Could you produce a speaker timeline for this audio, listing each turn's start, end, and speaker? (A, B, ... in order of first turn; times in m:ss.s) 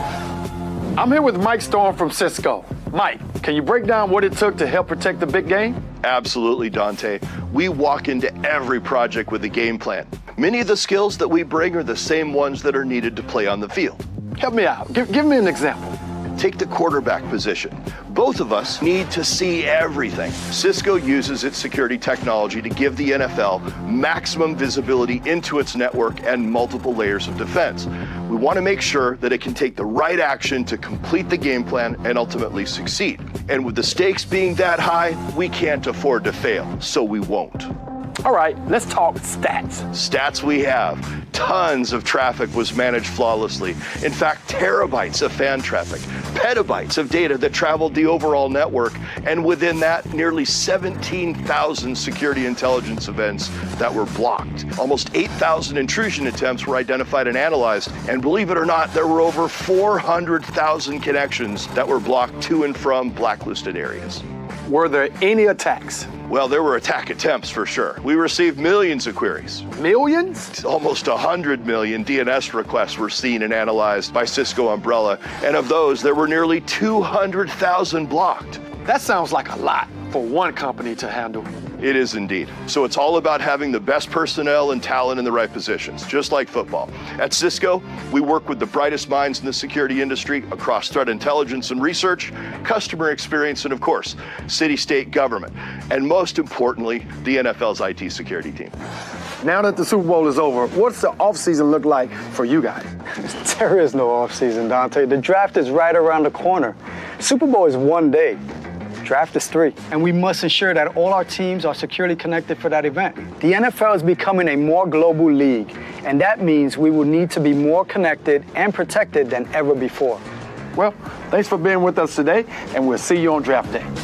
0:01.0-0:05.8 A
0:06.0-0:14.0 B
0:14.4-0:16.0 A
0:16.4-0:37.7 B
0:38.2-0:39.9 A
0:39.9-1:04.2 B
1:04.7-1:06.1 A
1:06.3-1:09.7 B
1:09.8-1:10.5 A
1:10.6-1:18.6 B
1:18.8-1:21.5 A
1:21.8-1:38.7 B
1:39.4-1:42.9 A
1:43.2-1:48.4 C
1:49.0-2:00.2 C
2:00.8-2:03.9 A